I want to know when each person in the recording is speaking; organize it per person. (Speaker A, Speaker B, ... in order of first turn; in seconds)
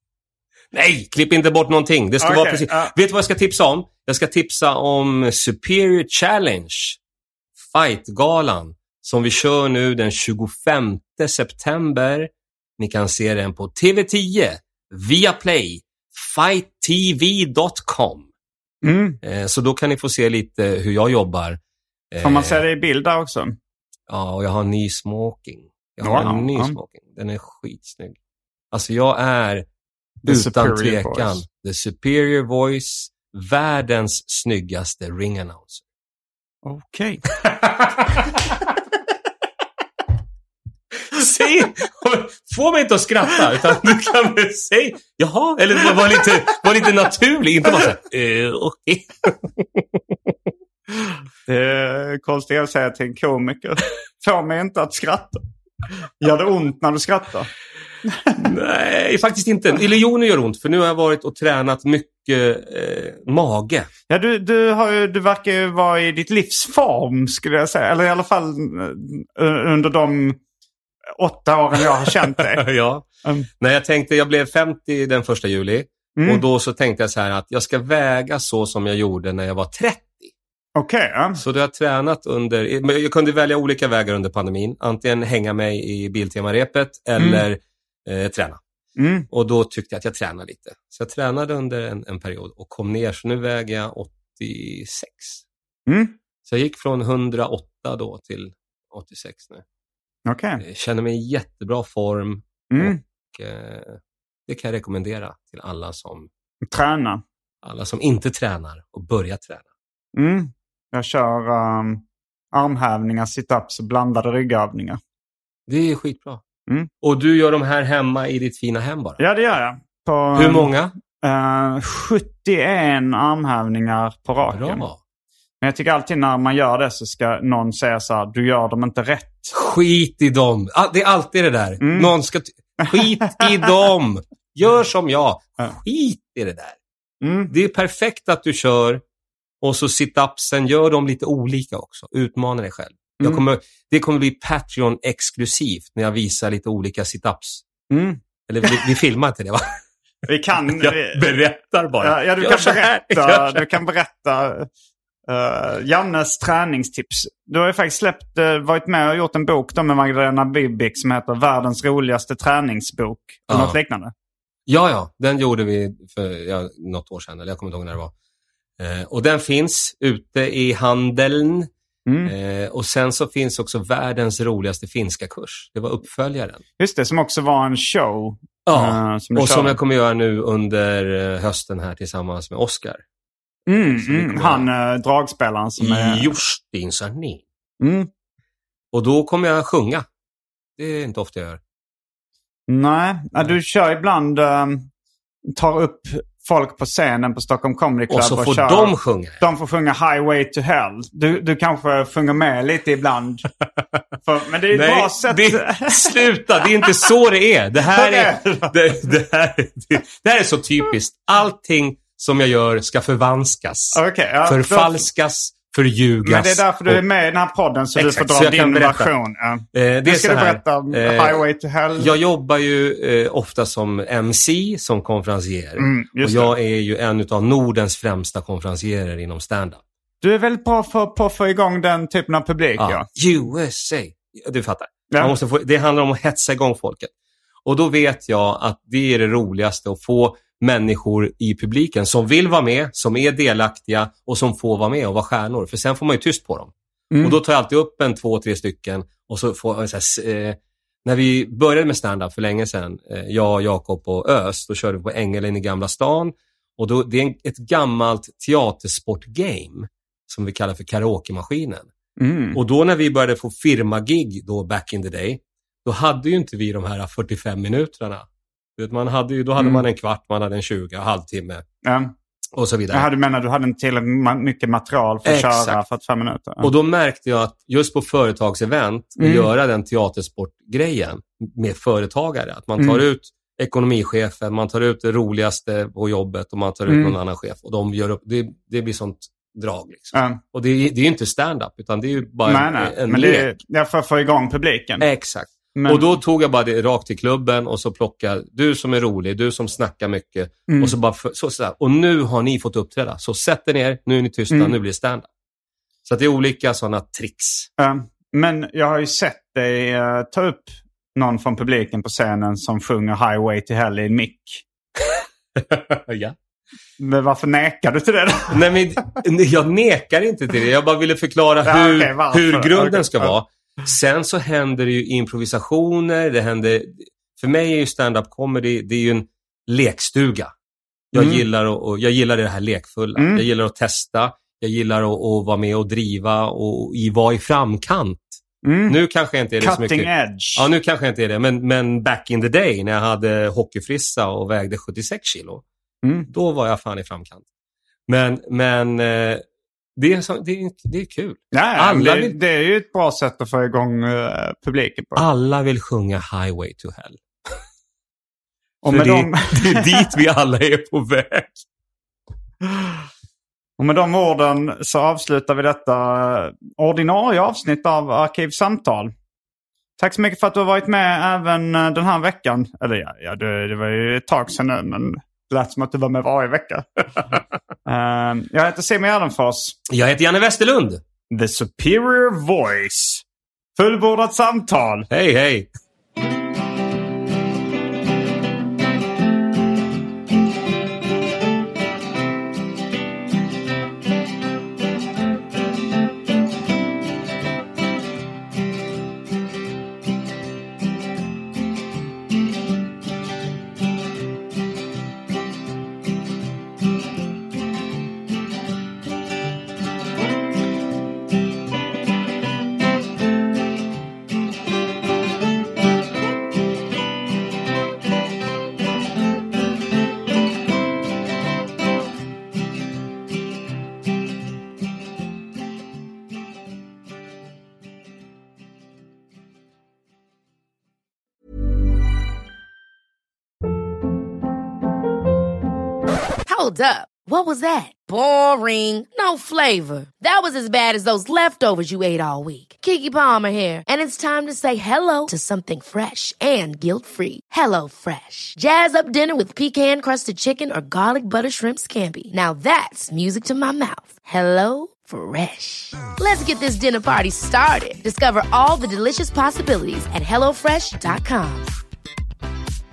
Speaker A: 0.7-7.0, 7.6-18.3, 19.2-21.6, 22.1-22.6, 24.1-28.2, 28.7-29.6, 30.2-35.8, 37.4-38.4, 41.1-50.1, 58.4-63.9, 71.8-73.0, 73.6-80.3, 81.3-88.6, 89.3-95.4, 96.4-99.6, 100.6-106.3, 107.6-109.7, 115.7-116.4, 117.0-119.2, 120.3-120.9, 124.5-125.0, 129.5-136.8, 137.5-139.0, 139.6-147.6, 148.5-149.7, 150.8-153.7, 163.5-163.8, 164.7-168.1, 168.8-171.7, 172.2-176.6, 178.7-183.0, 183.9-184.7, 185.8-187.4, 188.9-190.0, 190.8-191.6, 198.1-199.4, 204.7-217.0, 217.9-219.1, 219.7-229.8, 232.8-237.1, 237.6-261.9, 262.5-268.2, 268.8-271.6, 272.6-273.1, 275.2-275.8, 276.6-293.5, 295.0-305.3, 306.1-307.7, 315.6-316.3, 318.5-330.5, 331.1-345.6, 346.3-347.4, 348.1-349.4, 349.9-352.4, 355.1-357.2, 358.9-361.6, 379.9-381.0, 385.1-385.7
Speaker B: 2.2-2.9, 18.8-19.2, 22.2-23.6, 26.0-26.8, 30.2-31.4, 36.6-37.2, 51.5-55.4, 56.2-57.5, 58.0-58.5, 64.1-70.4, 71.2-72.7, 76.2-76.4, 80.8-81.4, 87.2-87.4, 89.0-89.3, 95.9-96.1, 100.2-100.6, 102.7-103.0, 106.7-107.2, 110.1-112.0, 112.5-115.0, 119.2-124.8, 125.6-129.5, 131.8-132.1, 132.8-133.7, 137.2-137.5, 147.9-148.8, 150.2-151.3, 152.0-154.7, 155.3-164.1, 172.1-172.3, 176.8-179.8, 183.7-186.3, 187.8-188.1, 192.7-194.9, 195.5-203.5, 204.2-206.3, 207.9-208.7, 213.9-215.1, 216.2-222.1, 225.8-226.5, 230.2-233.1, 247.1-247.4, 262.2-262.6, 269.6-269.8, 271.8-272.1, 272.9-276.7, 279.2-279.5, 282.8-283.0, 286.9-287.1, 290.1-290.4, 292.4-295.1, 295.7-296.1, 300.7-300.9, 307.8-314.6, 317.0-318.6, 321.6-323.3, 331.1-331.4, 333.2-333.5, 338.6-339.0, 339.6-340.6, 346.0-346.3, 351.5-355.2, 358.8-360.1, 363.8-369.1, 370.0-377.0, 377.9-379.8, 381.3-383.2, 383.8-385.1
Speaker C: 436.4-461.7